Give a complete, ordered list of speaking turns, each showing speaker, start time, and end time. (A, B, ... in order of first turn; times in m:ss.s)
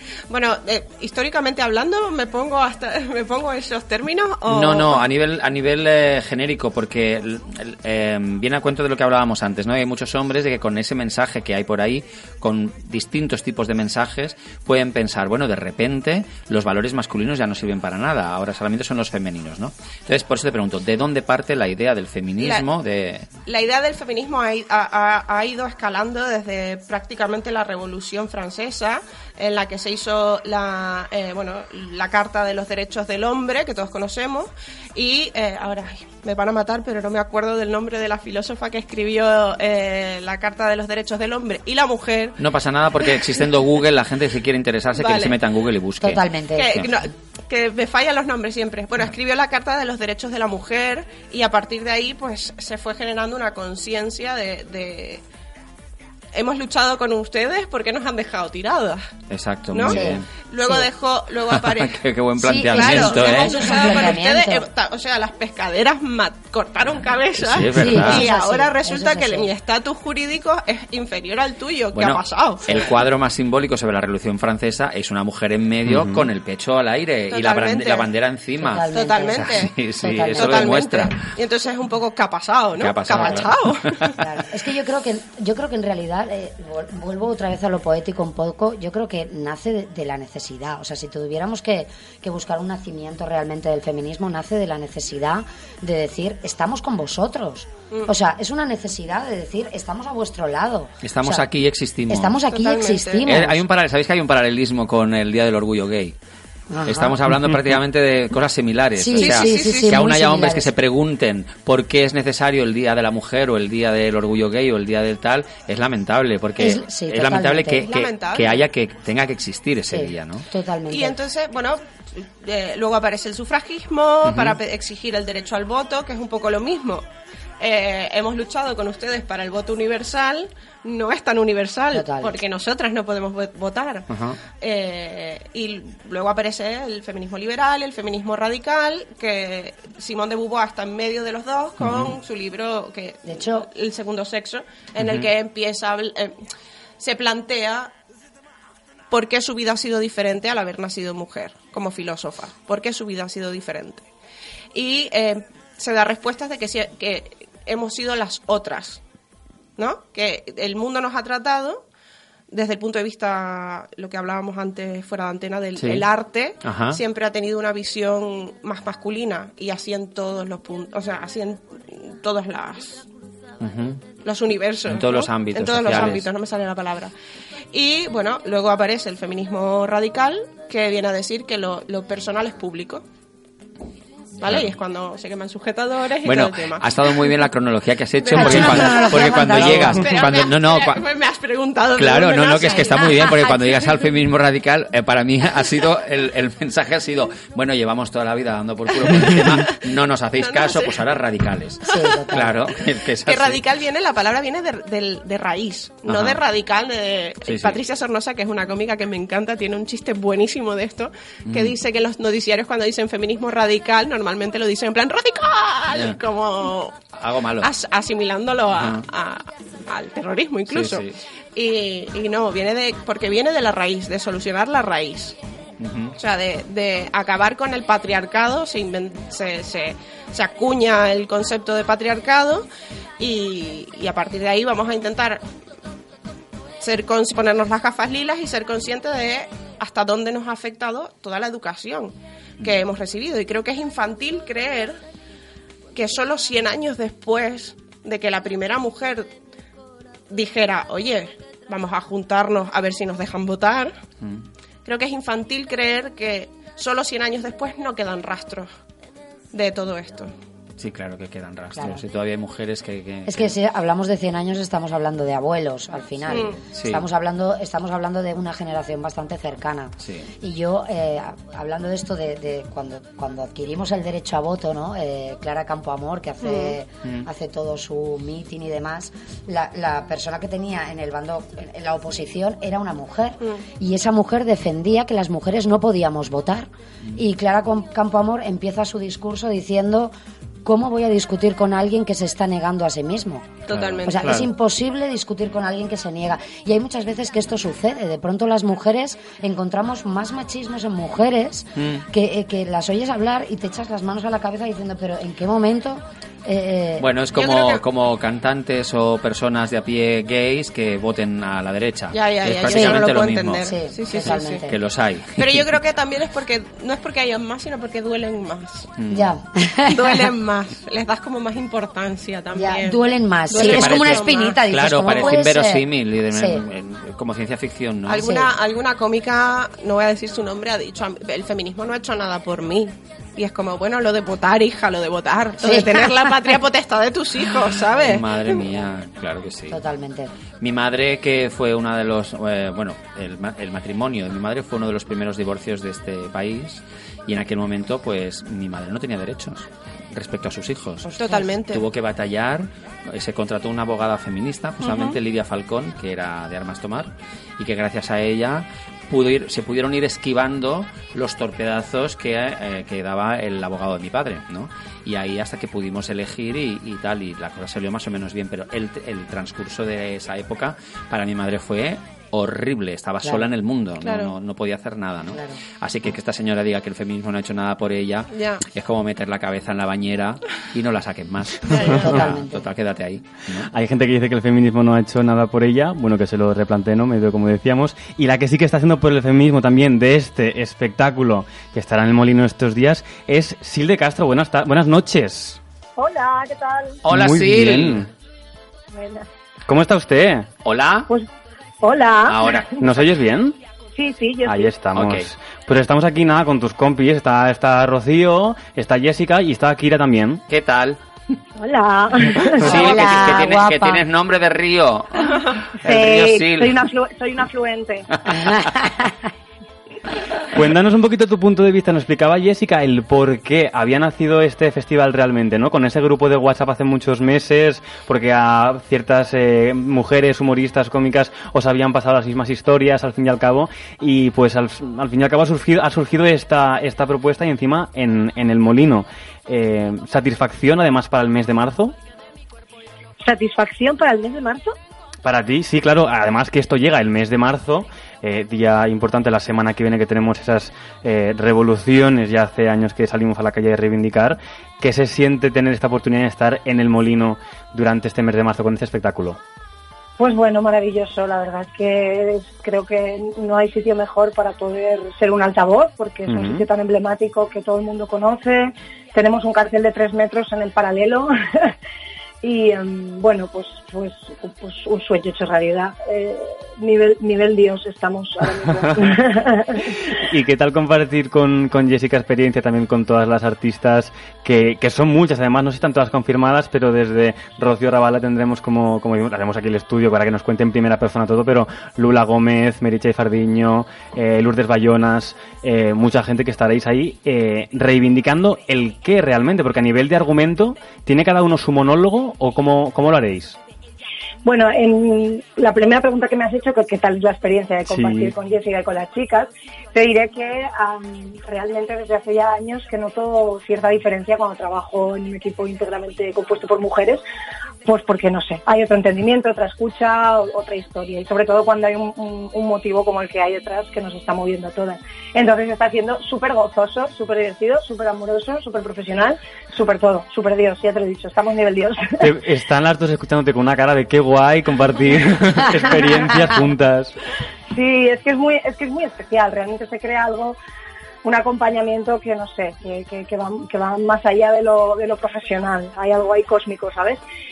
0:00.3-0:05.0 A
0:04.5-0:23.3 B
0:23.4-0:42.4 A
0:42.4-0:46.2 B
0:45.0-0:45.4 A
0:46.0-0:46.8 C
0:46.5-0:55.2 A
0:56.3-0:59.1 A
0:59.3-1:00.2 B
0:59.7-1:02.0 A
0:59.8-1:00.9 C
1:01.5-1:04.1 B
1:02.4-1:04.7 C
1:02.7-1:12.8 A
1:07.4-1:08.3 B
1:07.6-1:09.5 C
1:11.9-1:21.2 B
1:15.8-1:16.3 D
1:17.3-1:18.1 A
1:18.6-1:20.8 C
1:18.9-1:19.7 A
1:20.4-1:24.1 A
1:22.8-1:24.1 B
1:23.1-1:23.4 C
1:24.2-1:41.4 C
1:41.0-1:42.4 B
1:42.1-1:43.6 C
1:42.5-1:43.3 A
1:43.2-1:46.1 B
1:46.7-1:47.2 C
1:46.8-2:00.4 B
1:49.0-1:50.8 C
1:49.2-1:50.0 A
1:56.6-1:57.9 C
1:57.9-1:58.6 A
1:59.9-2:01.2 C
2:00.9-2:07.0 A
2:04.2-2:04.6 B
2:07.6-2:14.1 A
2:11.9-2:12.4 C
2:14.1-2:14.4 B
2:14.6-2:26.4 A
2:21.8-2:22.2 B
2:23.2-2:23.7 C
2:27.0-2:27.9 A
2:29.1-2:34.0 A
2:34.7-2:39.0 A
2:39.8-2:41.8 A
2:42.5-2:53.0 A
2:45.8-2:46.0 B
2:46.6-2:47.0 B
2:53.6-2:54.0 B
2:54.2-2:57.1 A
2:54.9-2:56.2 B
2:57.7-3:03.0 A
3:04.4-3:06.9 A
3:04.4-3:04.7 B
3:06.2-3:11.0 B
3:08.2-3:14.0 A
3:08.3-3:10.1 C
3:12.0-3:23.6 B
3:20.4-3:21.0 A
3:21.9-3:22.6 C
3:21.9-3:22.2 A
3:23.2-3:36.9 A
3:26.1-3:26.4 B
3:27.4-3:27.8 B
3:31.5-3:31.7 B
3:35.9-3:36.2 B
3:37.2-3:37.7 B
3:37.6-3:45.4 A
3:38.8-3:39.0 B
3:40.7-3:41.1 B
3:45.8-3:46.1 B
3:46.2-3:52.6 A
3:53.2-3:55.4 A
3:56.8-4:05.0 A
4:06.0-4:09.3 A
4:10.3-4:14.0 A
4:14.8-4:18.7 A
4:19.5-4:20.3 A
4:20.8-4:23.5 B
4:21.8-4:22.0 C
4:23.2-4:50.1 C
4:26.3-4:26.6 A
4:26.8-4:27.0 B
4:30.0-4:30.3 B
4:36.4-4:36.8 A
4:50.6-5:07.1 C
4:53.7-4:54.4 A
4:53.7-4:54.5 B
5:01.8-5:02.0 B
5:07.0-5:15.8 B
5:07.3-5:07.8 A
5:12.1-5:14.6 A
5:12.7-5:13.0 C
5:13.6-5:14.8 C
5:15.4-5:18.9 A
5:19.0-5:19.3 B
5:19.1-5:20.3 C
5:19.9-5:24.6 A
5:22.5-5:26.6 C
5:23.5-5:28.3 B
5:28.0-5:38.6 A
5:28.2-5:28.5 C
5:35.6-5:36.1 C
5:38.0-5:39.8 B
5:39.7-5:40.3 C
5:40.6-5:51.1 B
5:51.2-5:51.8 A
5:51.7-6:23.7 B
5:54.8-5:55.2 A
6:13.2-6:13.5 C
6:14.0-6:14.3 A
6:15.3-6:15.6 C
6:18.3-6:18.6 A
6:21.6-6:22.2 A
6:21.8-6:22.7 C
6:21.9-6:22.2 D
6:23.7-6:35.6 D
6:36.0-6:37.0 E
6:37.0-6:38.0 B
6:37.1-6:38.1 D
6:38.9-6:39.2 E
6:39.7-6:40.5 D
6:40.6-6:41.1 B
6:41.8-6:42.8 E
6:42.2-6:43.0 B
6:42.8-6:43.6 D
6:44.0-6:44.7 E
6:44.4-6:50.4 D
6:44.9-6:45.3 B
6:50.5-6:51.4 B
6:51.6-6:53.1 E
6:52.4-6:56.9 B
6:52.6-6:54.0 C
6:55.8-6:58.1 E
6:58.3-6:58.6 B
6:58.4-6:59.1 C
7:00.5-7:22.0 D
7:23.2-7:24.8 E
7:25.2-7:39.4 D
7:40.2-7:51.7 E
7:46.3-7:46.6 D
7:52.4-7:59.9 E
7:58.9-7:59.1 D
8:00.1-8:23.6 D
8:24.4-8:37.2 E
8:27.8-8:28.3 D
8:37.8-8:52.2 E
8:52.2-8:57.2 D
8:57.7-9:00.6 E
9:01.2-9:07.2 E